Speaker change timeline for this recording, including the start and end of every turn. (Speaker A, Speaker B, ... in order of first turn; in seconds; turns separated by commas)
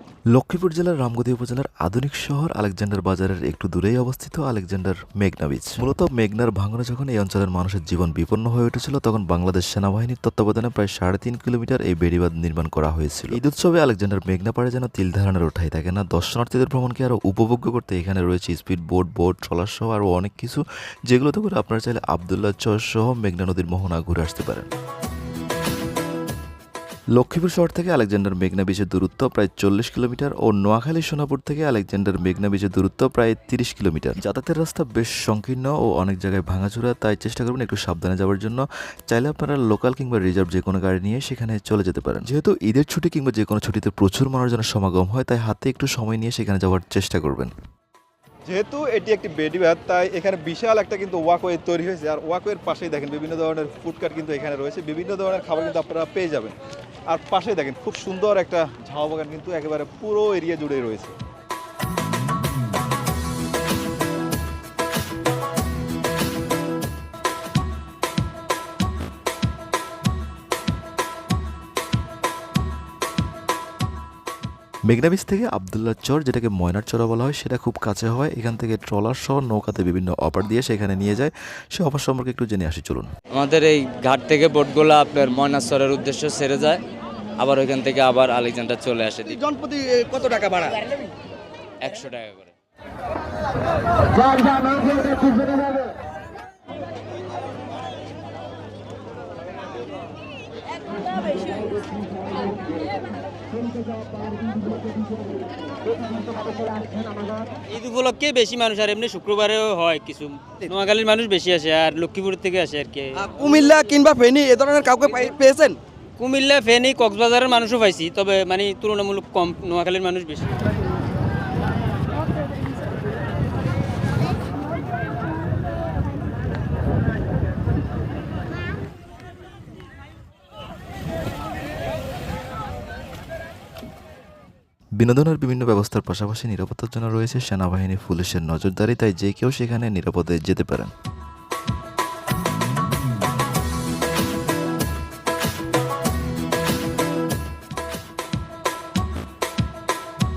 Speaker A: 0.3-24.7, Speaker A: 27.1-47.5, Speaker B: 48.5-56.5, Speaker B: 57.1-61.1, Speaker A: 74.9-83.1, Speaker C: 83.3-86.8, Speaker C: 87.4-89.4, Speaker D: 89.3-90.9, Speaker C: 91.8-92.5, Speaker E: 107.7-113.2, Speaker D: 113.2-115.8, Speaker E: 116.2-120.5, Speaker A: 135.0-140.9